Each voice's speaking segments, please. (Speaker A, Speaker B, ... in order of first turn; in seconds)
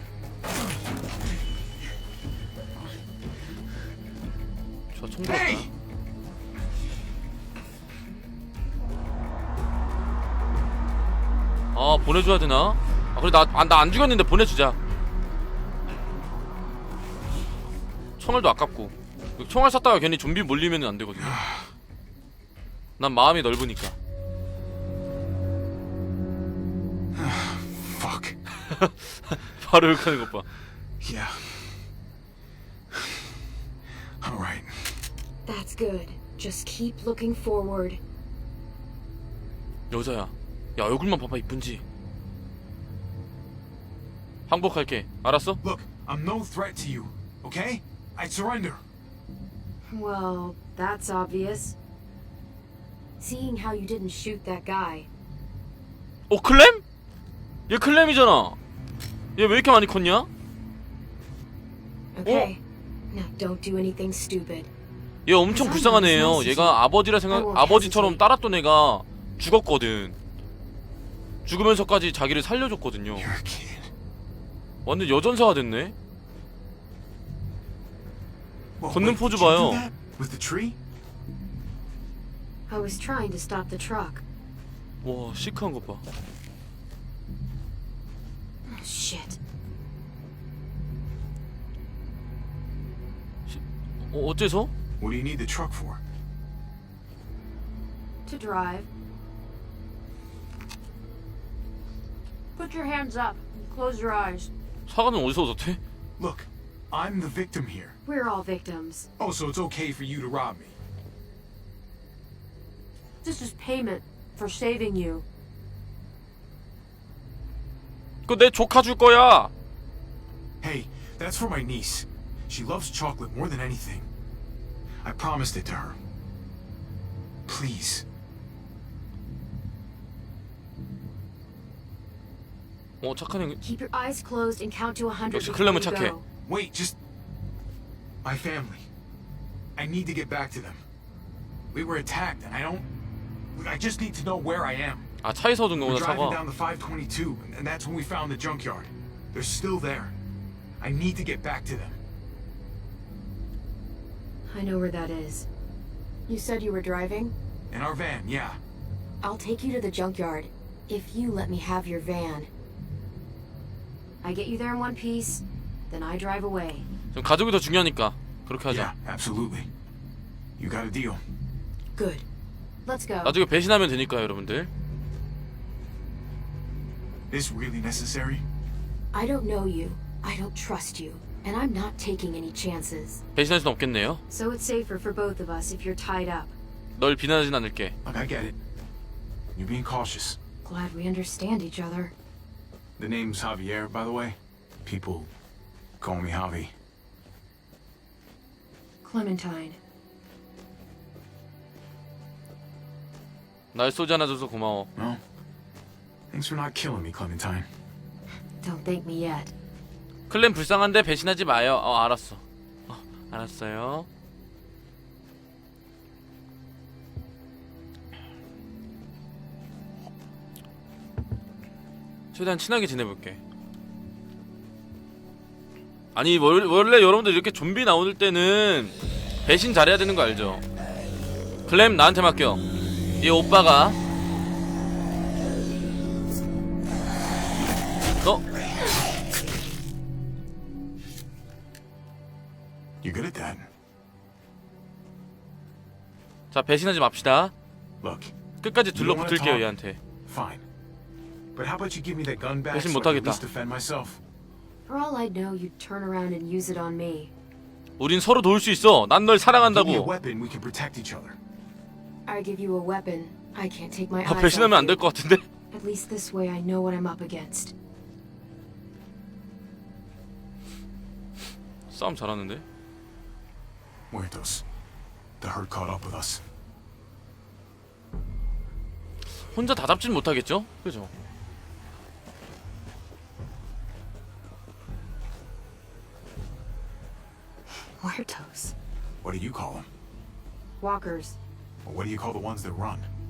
Speaker A: 4.9-5.7, 11.7-14.8, 18.2-21.4, 23.0-23.9, 28.7-30.4, 39.9-41.8, 44.5-45.6, 56.3-56.8, 57.7-58.6, 59.4-60.3, 62.2-62.5, 65.3-70.2, 71.5-73.3, 74.8-75.9, 78.9-79.8, 85.0-86.0, 93.5-94.7, 104.9-105.8, 118.3-119.5, 133.0-133.6, 135.3-136.1, 145.2-146.4, 167.1-168.9, 173.2-174.7, 183.3-184.2, 187.0-187.9, 203.7-204.9, 210.3-214.1, 222.3-223.4, 226.1-230.6, 231.7-232.6, 233.2-234.0, 246.5-247.5, 248.6-250.0, 252.7-253.4, 258.0-260.1, 264.2-265.4, 271.9-272.6, 279.4-281.1
Speaker B: 5.2-5.7, 21.2-21.7, 27.1-28.4, 31.0-31.8, 34.2-35.0, 45.6-48.8, 73.1-73.9, 78.8-80.8, 95.0-96.0, 106.2-108.0, 109.2-110.8, 120.6-124.1, 125.0-126.0, 127.5-128.0, 136.4-137.0, 138.2-138.9, 139.8-140.8, 141.7-142.9, 143.5-145.1, 145.8-150.1, 150.8-152.0, 157.7-158.6, 168.7-169.7, 170.6-171.2, 177.3-178.4, 188.0-188.6, 189.5-190.4, 193.0-195.3, 196.0-196.7, 204.9-205.2, 206.3-207.7, 243.0-243.7, 248.0-248.3, 248.9-249.7, 250.2-250.6, 251.5-254.2, 259.6-261.4, 274.1-274.6, 275.4-276.4, 289.2-289.9, 291.8-293.1
Speaker C: 35.4-38.0, 49.9-51.8, 53.2-55.1, 62.1-62.6, 63.1-64.7, 65.5-68.2, 82.7-84.2, 88.7-89.4, 98.2-98.9, 108.0-109.1, 133.6-136.2, 154.5-155.5, 156.3-157.3, 159.2-162.5, 164.2-166.8, 171.9-172.2, 172.8-173.4, 179.1-183.2, 184.3-186.5, 190.6-192.1, 199.0-199.8, 208.6-209.5, 254.8-257.3, 262.2-265.0, 265.7-267.7, 288.0-288.7, 290.8-291.4
Speaker D: 102.5-104.5, 113.2-115.2